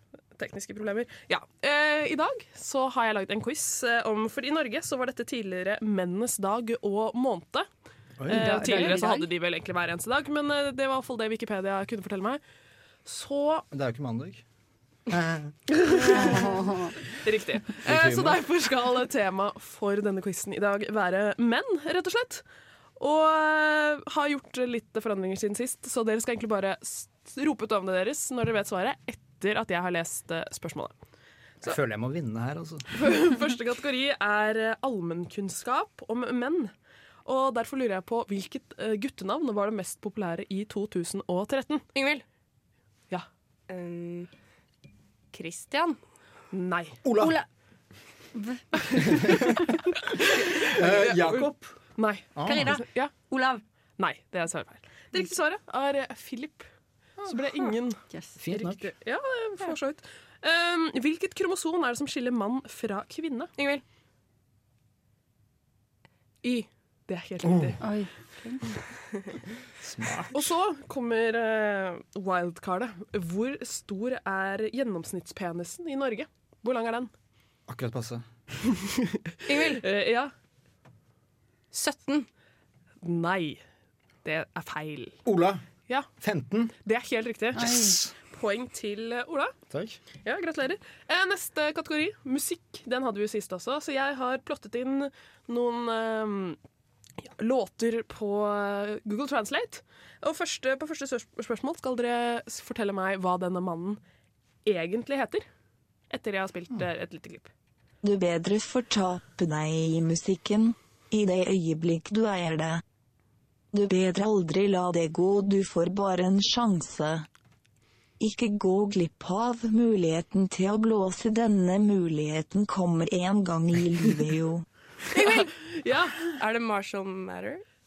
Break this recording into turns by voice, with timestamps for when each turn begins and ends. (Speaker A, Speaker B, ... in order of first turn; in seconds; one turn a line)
Speaker A: 0.3-7.7
Speaker B: 8.2-8.5
Speaker A: 8.3-12.4
Speaker C: 8.3-9.3
Speaker A: 13.0-13.6
Speaker B: 13.7-14.4
Speaker B: 15.1-16.2
Speaker A: 15.7-16.5
Speaker C: 16.1-16.9
Speaker A: 17.1-22.4
Speaker B: 17.8-18.4
Speaker A: 23.0-30.9
Speaker B: 31.6-32.9
Speaker A: 32.9-36.7
Speaker A: 37.2-41.9
Speaker D: 41.9-42.2
Speaker D: 43.7-44.3
Speaker D: 45.3-46.0
Speaker A: 46.5-47.0
Speaker B: 47.0-47.4
Speaker C: 48.3-49.6
Speaker B: 49.0-49.5
Speaker A: 50.2-53.1
Speaker B: 50.6-51.7
Speaker B: 52.3-52.8
Speaker C: 52.4-53.6
Speaker A: 54.0-63.5
Speaker B: 58.4-58.8
Speaker D: 63.6-63.8
Speaker A: 66.5-67.8
Speaker B: 67.4-67.8
Speaker C: 67.8-68.6
Speaker B: 69.8-70.4
Speaker A: 70.3-77.1
Speaker B: 77.7-78.2
Speaker A: 79.0-80.3
Speaker D: 79.5-79.8
Speaker D: 81.7-82.3
Speaker A: 83.0-83.6
Speaker A: 84.2-85.2
Speaker B: 85.2-85.6
Speaker B: 86.2-86.7
Speaker A: 86.8-89.5
Speaker C: 87.5-88.0
Speaker B: 87.5-88.1
Speaker B: 89.7-90.0
Speaker A: 90.2-96.6
Speaker A: 97.2-104.0
Speaker A: 104.6-105.4
Speaker A: 106.1-107.5
Speaker E: 108.0-112.8
Speaker E: 113.7-117.2
Speaker E: 118.2-124.6
Speaker D: 125.1-125.5
Speaker A: 125.2-126.2
Speaker D: 126.3-127.6